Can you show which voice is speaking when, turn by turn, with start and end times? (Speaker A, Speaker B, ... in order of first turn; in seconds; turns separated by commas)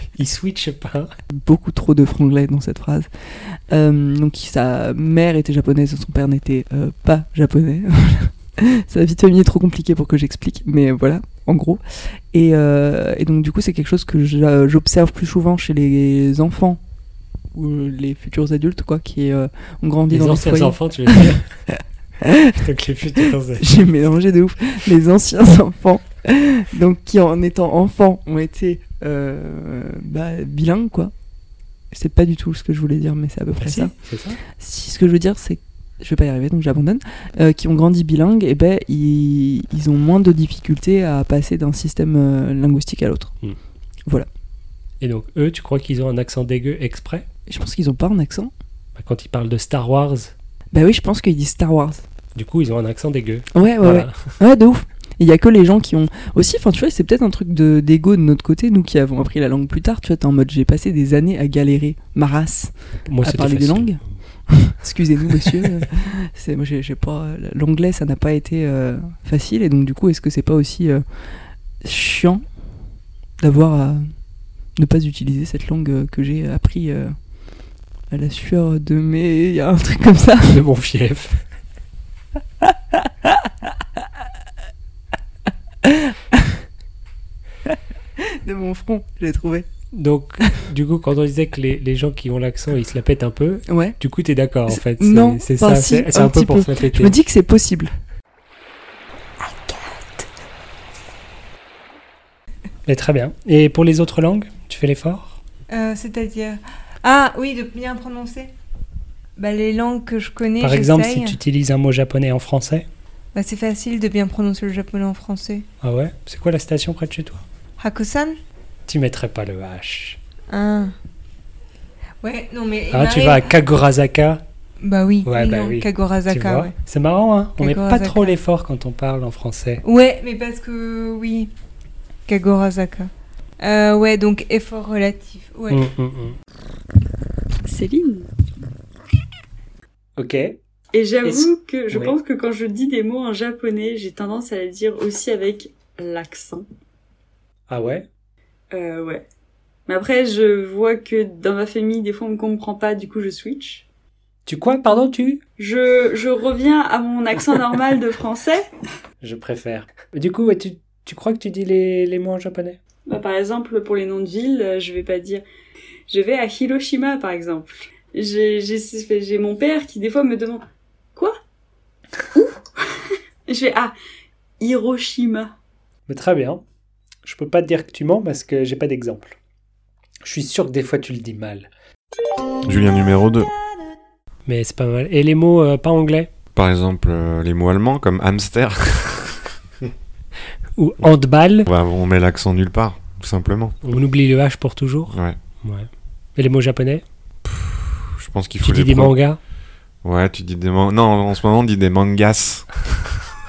Speaker A: 0.1-1.1, Speaker B: 1.3-11.8, Speaker B: 12.3-16.8, Speaker B: 17.5-22.6, Speaker A: 20.1-21.6, Speaker A: 22.4-23.8, Speaker B: 23.6-31.1, Speaker B: 31.9-33.9, Speaker A: 33.6-34.4, Speaker B: 34.5-43.3, Speaker A: 45.0-47.2, Speaker B: 47.5-48.5, Speaker A: 49.0-50.3, Speaker B: 50.7-52.0, Speaker A: 52.3-54.4, Speaker B: 53.5-71.0, Speaker A: 63.0-64.2, Speaker A: 65.4-65.8, Speaker B: 71.8-72.4, Speaker B: 73.4-74.1, Speaker B: 74.8-77.1, Speaker B: 78.1-80.6, Speaker A: 80.5-81.4, Speaker B: 82.6-83.5, Speaker B: 85.8-86.6, Speaker B: 87.7-89.7, Speaker A: 89.9-97.2, Speaker B: 93.7-94.0, Speaker B: 94.7-97.9, Speaker A: 102.8-105.4, Speaker C: 105.7-108.5, Speaker C: 109.4-111.4, Speaker A: 110.6-112.9, Speaker C: 113.3-115.7, Speaker A: 115.8-117.4, Speaker C: 117.8-118.4, Speaker A: 118.9-120.2, Speaker C: 120.5-120.9, Speaker C: 122.2-123.5, Speaker A: 122.9-124.4, Speaker C: 124.8-126.7, Speaker A: 125.2-129.8, Speaker C: 127.6-128.4, Speaker C: 129.8-131.5, Speaker C: 132.3-135.9, Speaker A: 135.7-136.4, Speaker D: 137.7-138.3, Speaker A: 140.2-140.6, Speaker D: 140.9-146.7, Speaker A: 141.2-142.2, Speaker A: 147.7-148.1, Speaker D: 148.7-149.2, Speaker D: 149.9-153.8, Speaker A: 154.4-155.4, Speaker D: 155.6-158.7, Speaker A: 159.2-162.8, Speaker D: 163.1-165.4, Speaker D: 166.1-170.6, Speaker D: 172.3-173.9, Speaker D: 174.6-175.5, Speaker A: 176.1-176.6, Speaker A: 177.2-179.4, Speaker A: 180.2-181.7, Speaker E: 182.7-183.5, Speaker A: 184.4-186.3, Speaker E: 186.5-189.5, Speaker A: 190.8-191.7, Speaker E: 191.7-193.7, Speaker A: 193.8-197.0, Speaker E: 195.1-195.4, Speaker E: 197.4-199.2, Speaker A: 198.6-199.4, Speaker E: 200.0-203.1